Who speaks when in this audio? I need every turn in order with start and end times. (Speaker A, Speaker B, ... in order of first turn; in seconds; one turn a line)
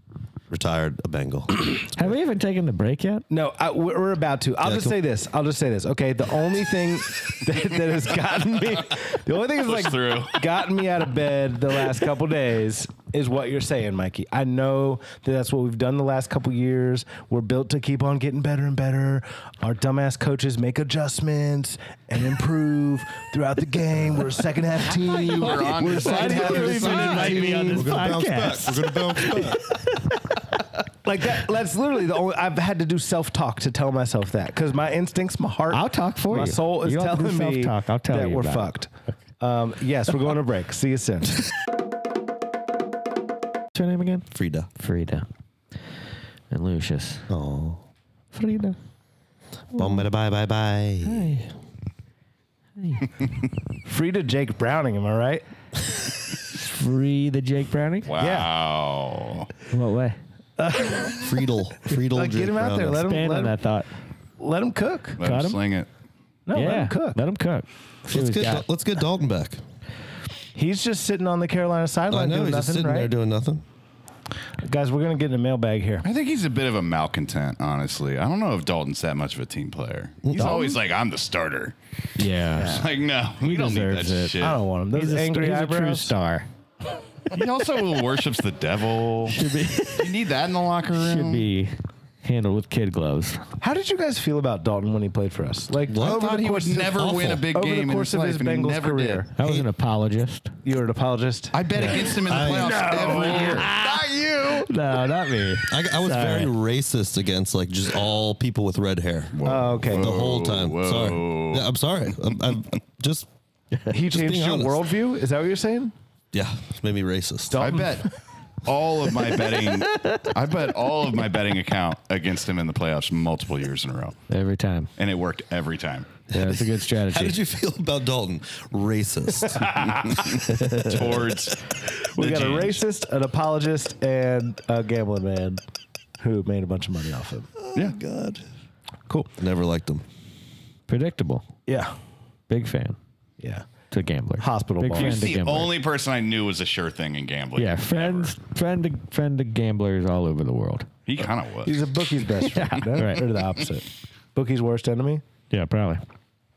Speaker A: 0.5-1.9
Speaker B: 1.9-3.3
Speaker C: 3.3-27.9
Speaker A: 4.6-5.0
Speaker D: 9.6-10.4
Speaker D: 24.9-27.6
Speaker B: 25.4-30.5
Speaker A: 26.6-29.8
Speaker C: 31.0-41.5
Speaker B: 35.7-38.7
Speaker B: 43.7-45.3
Speaker A: 44.3-44.7
Speaker B: 46.5-47.3
Speaker A: 47.3-47.8
Speaker B: 48.3-48.8
Speaker B: 49.7-50.0
Speaker A: 49.7-51.4
Speaker B: 51.0-51.5
Speaker B: 52.8-53.1
Speaker C: 53.9-55.5
Speaker B: 56.5-58.1
Speaker D: 58.1-59.5
Speaker C: 58.2-58.5
Speaker B: 59.7-60.2
Speaker C: 60.6-61.4
Speaker A: 61.2-63.0
Speaker C: 61.9-63.5
Speaker B: 63.0-63.9
Speaker C: 64.4-65.2
Speaker D: 65.2-65.9
Speaker B: 65.2-65.6
Speaker C: 66.5-67.2
Speaker B: 66.5-68.7
Speaker A: 68.1-69.6
Speaker C: 70.5-73.1
Speaker A: 72.1-73.6
Speaker C: 74.6-76.0
Speaker D: 76.0-81.8
Speaker A: 80.2-80.6
Speaker C: 80.3-80.8
Speaker B: 82.2-82.9
Speaker D: 82.5-84.6
Speaker B: 83.4-84.4
Speaker C: 84.4-86.1
Speaker B: 84.9-86.5
Speaker D: 87.3-89.4
Speaker B: 89.3-90.1
Speaker D: 90.0-91.5
Speaker B: 91.0-93.4
Speaker C: 93.6-99.3
Speaker A: 95.9-96.2
Speaker D: 96.0-99.2
Speaker A: 97.0-97.4
Speaker B: 99.4-100.5
Speaker A: 99.4-99.7
Speaker C: 100.7-102.1
Speaker D: 101.5-104.7
Speaker B: 101.8-106.5
Speaker A: 102.2-102.9
Speaker A: 105.7-113.3
Speaker D: 109.3-111.7
Speaker C: 109.4-110.1
Speaker C: 113.9-115.9
Speaker A: 114.0-114.9
Speaker A: 116.3-117.8
Speaker C: 117.5-118.0
Speaker D: 117.5-118.1
Speaker D: 118.7-124.2
Speaker B: 119.7-120.3
Speaker B: 124.3-124.9
Speaker D: 125.0-126.1
Speaker B: 126.3-127.4
Speaker A: 126.3-131.2
Speaker D: 129.7-131.6
Speaker C: 132.2-135.6
Speaker D: 132.2-132.8
Speaker C: 136.2-137.5
Speaker A: 137.7-138.5
Speaker A: 139.4-140.0
Speaker B: 140.9-141.5
Speaker C: 141.7-141.9
Speaker B: 142.5-143.0
Speaker C: 143.4-143.7
Speaker B: 143.9-145.7
Speaker C: 144.4-145.3
Speaker D: 144.9-148.3
Speaker B: 147.6-150.9
Speaker D: 151.1-151.9
Speaker C: 151.7-155.2
Speaker B: 152.4-153.3
Speaker B: 155.5-156.0